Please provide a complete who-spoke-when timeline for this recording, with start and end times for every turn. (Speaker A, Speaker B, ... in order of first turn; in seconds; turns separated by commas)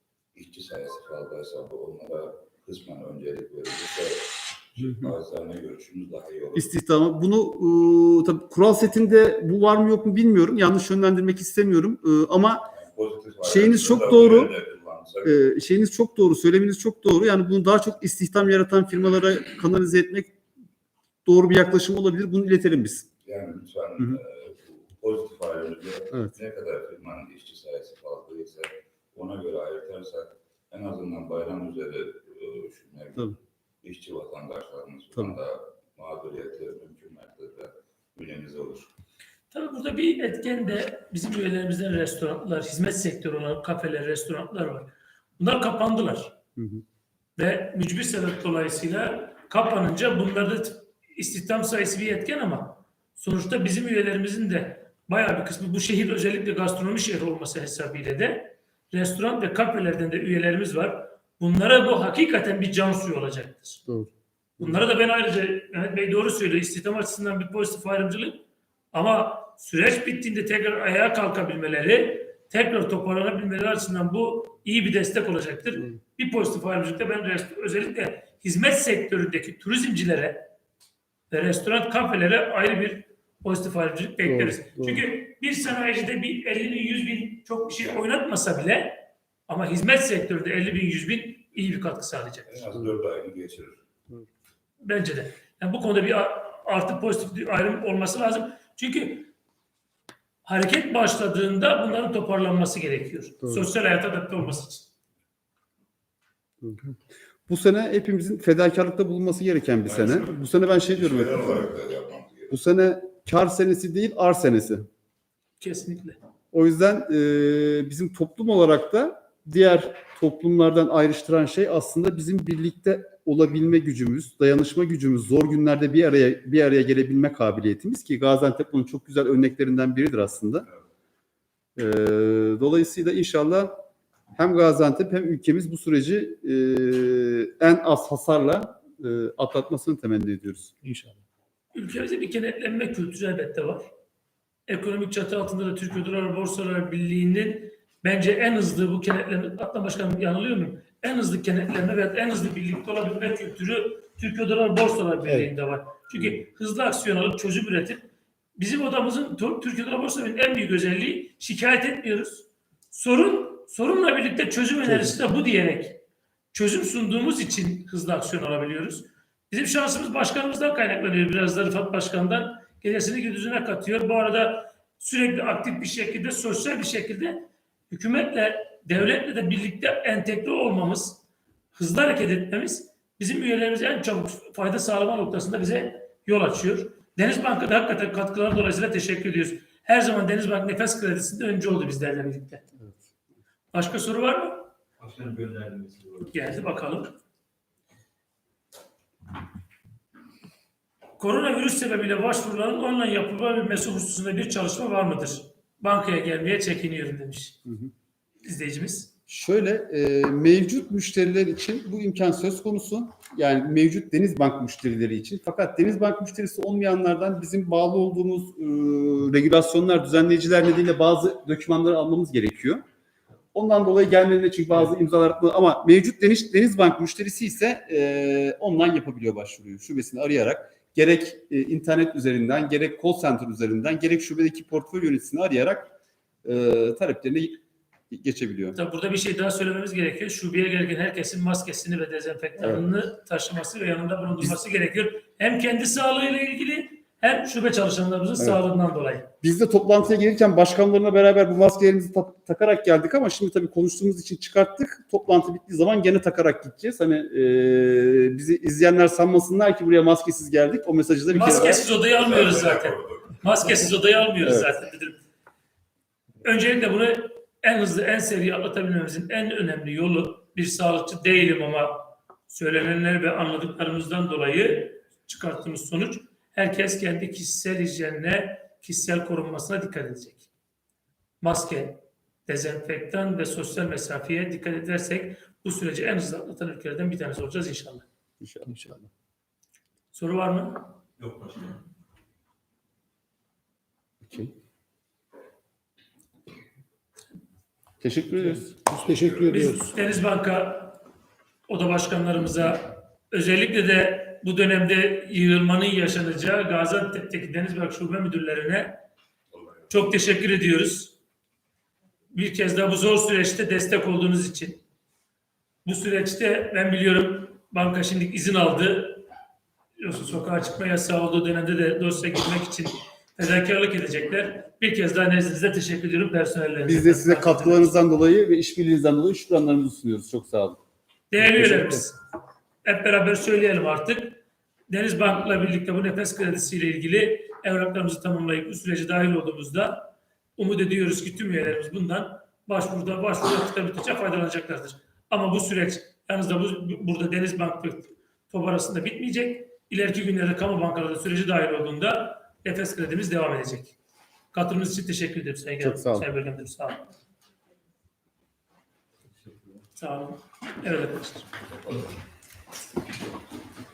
Speaker A: 0.3-6.7, Speaker B: 6.5-12.7, Speaker A: 12.7-15.4, Speaker B: 13.4-14.5, Speaker B: 15.2-20.3, Speaker B: 21.2-23.1, Speaker A: 23.2-38.9, Speaker C: 39.5-46.4, Speaker B: 46.6-46.8, Speaker C: 47.4-63.8, Speaker B: 63.9-64.8, Speaker C: 64.6-80.5, Speaker C: 81.3-92.5, Speaker B: 84.2-85.0, Speaker A: 92.5-93.8, Speaker C: 94.8-99.3, Speaker C: 100.4-104.9, Speaker B: 103.4-103.7, Speaker B: 106.6-106.9, Speaker B: 107.5-111.6, Speaker A: 109.9-112.5, Speaker B: 112.5-114.9, Speaker C: 115.6-116.2, Speaker B: 116.5-130.7, Speaker B: 131.8-133.8, Speaker B: 134.4-140.7, Speaker D: 140.8-141.2, Speaker C: 141.7-143.9, Speaker C: 144.7-166.0, Speaker D: 155.2-155.5, Speaker C: 166.5-181.2, Speaker C: 181.7-192.6, Speaker C: 193.7-194.7, Speaker E: 195.0-196.3, Speaker C: 196.3-197.2, Speaker C: 201.2-207.6, Speaker B: 207.7-207.9, Speaker C: 208.4-209.1, Speaker B: 209.3-222.8, Speaker B: 223.5-237.6, Speaker B: 238.1-238.8, Speaker C: 238.7-249.3, Speaker B: 242.6-242.8, Speaker B: 249.4-261.8, Speaker C: 261.3-265.2, Speaker A: 261.4-263.4, Speaker B: 264.4-264.7, Speaker C: 266.4-280.5, Speaker C: 281.4-288.0, Speaker B: 288.4-289.0, Speaker D: 288.7-289.0, Speaker C: 290.1-290.9, Speaker E: 291.2-291.8, Speaker B: 294.2-294.5, Speaker B: 298.0-298.7, Speaker D: 298.4-300.0, Speaker C: 299.5-301.0, Speaker C: 301.7-309.0, Speaker C: 309.9-311.1, Speaker C: 312.3-314.8, Speaker C: 315.8-319.2, Speaker C: 320.0-327.9, Speaker B: 326.8-330.8, Speaker C: 331.3-332.2, Speaker B: 331.4-332.0, Speaker C: 332.8-353.9, Speaker C: 354.5-357.1, Speaker B: 355.8-356.3, Speaker C: 359.9-361.4